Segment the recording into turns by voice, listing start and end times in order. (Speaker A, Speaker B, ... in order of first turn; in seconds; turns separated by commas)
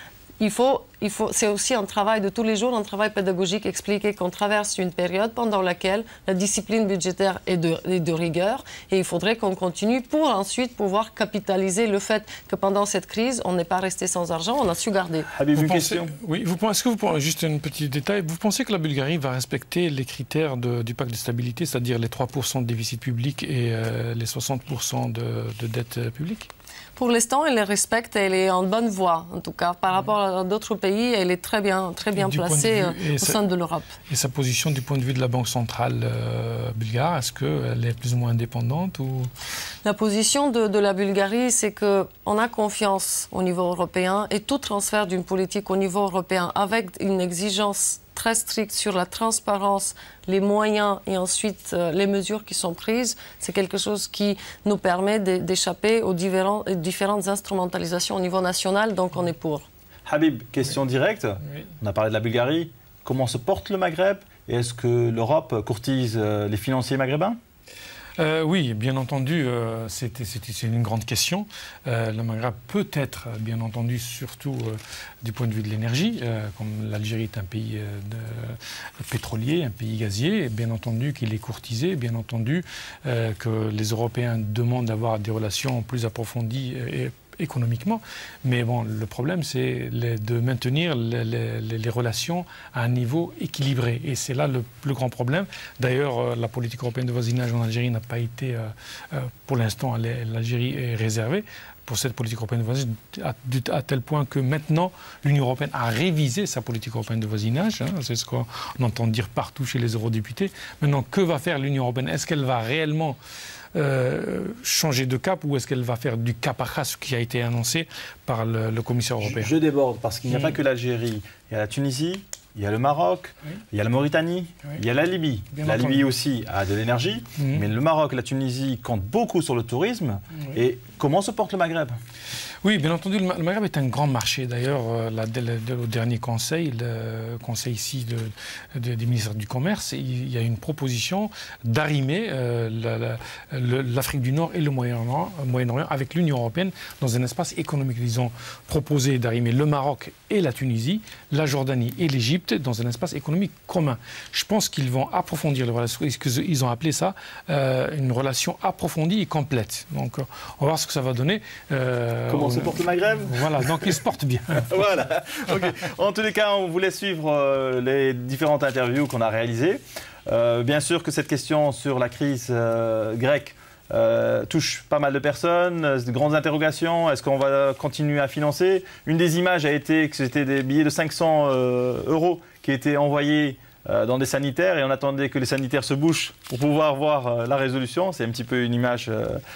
Speaker A: 0.4-15.3, Speaker B: 15.3-16.1, Speaker C: 15.6-26.5, Speaker A: 27.0-33.9, Speaker C: 32.1-33.4, Speaker C: 34.1-39.3, Speaker A: 39.8-59.7, Speaker B: 60.0-67.4, Speaker C: 68.2-113.2, Speaker C: 113.8-119.5, Speaker B: 119.2-132.0, Speaker C: 120.3-120.5, Speaker C: 125.5-126.1, Speaker C: 132.6-164.8, Speaker B: 162.3-164.0, Speaker B: 164.7-189.4